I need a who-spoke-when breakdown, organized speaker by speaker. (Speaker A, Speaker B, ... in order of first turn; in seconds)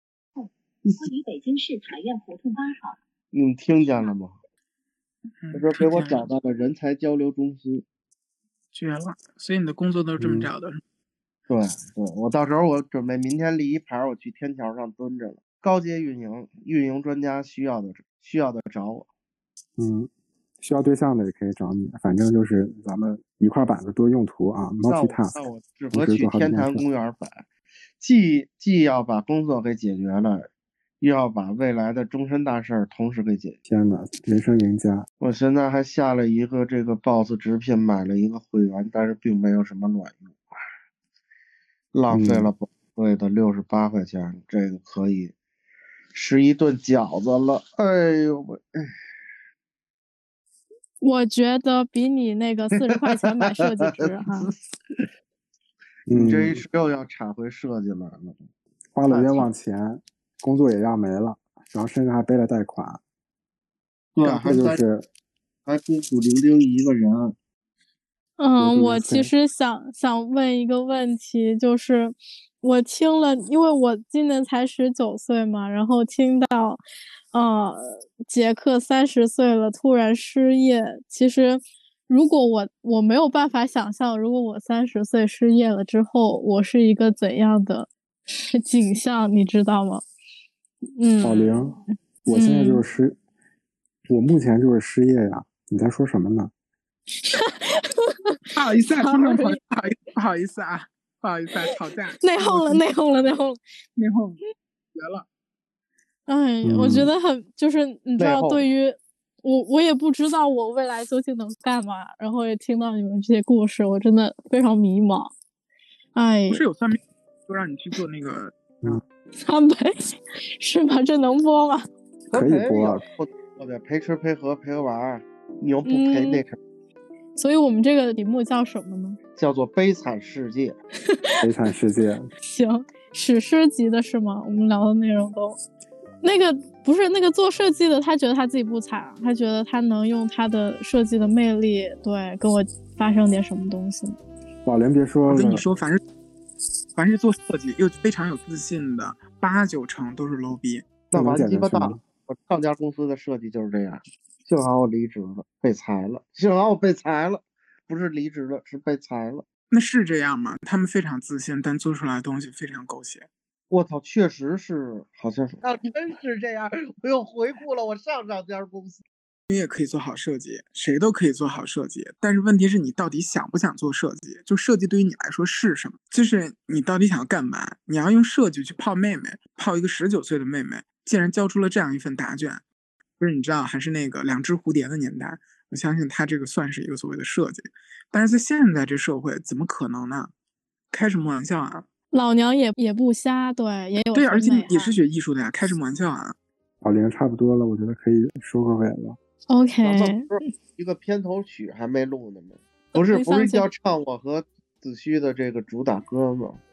Speaker A: 0.4-2.9
Speaker B: 3.3-4.3, 5.5-7.8, 11.5-19.1, 24.8-27.5, 28.0-30.5, 31.0-33.6, 35.2-40.5, 41.9-45.3, 46.1-48.6, 52.7-55.1, 56.1-58.5, 59.0-59.5, 64.1-64.8, 65.7-67.3, 108.2-108.7, 122.3-126.6, 129.3-130.8, 151.1-159.4, 163.7-169.0, 199.8-206.6
Speaker C: 5.4-6.3, 8.7-10.8, 98.5-102.8, 104.0-104.4, 104.9-105.2, 116.5-118.9, 145.2-146.0, 146.9-150.8, 159.7-163.3, 169.5-182.6, 183.2-190.3, 190.9-191.8, 194.0-196.3
Speaker D: 10.2-10.5, 19.8-20.1, 20.6-25.4, 25.9-26.8, 33.6-35.1, 42.1-42.5, 56.1-56.6, 58.9-63.0, 64.2-65.1, 68.6-69.3, 91.2-93.2, 94.1-96.5, 106.6-107.1, 122.3-123.0, 131.4-132.3, 144.6-145.6, 151.1-152.0, 196.8-199.2
Speaker E: 51.0-54.5, 68.4-87.9, 88.5-90.0, 91.0-91.6, 92.3-92.8, 97.2-99.5, 102.2-103.6, 106.2-115.3, 116.1-116.6, 119.3-119.9, 120.5-121.8, 125.8-126.4, 127.3-129.2, 131.1-131.4, 132.4-135.6, 136.2-144.2, 192.1-194.9, 199.5-200.3, 202.9-203.7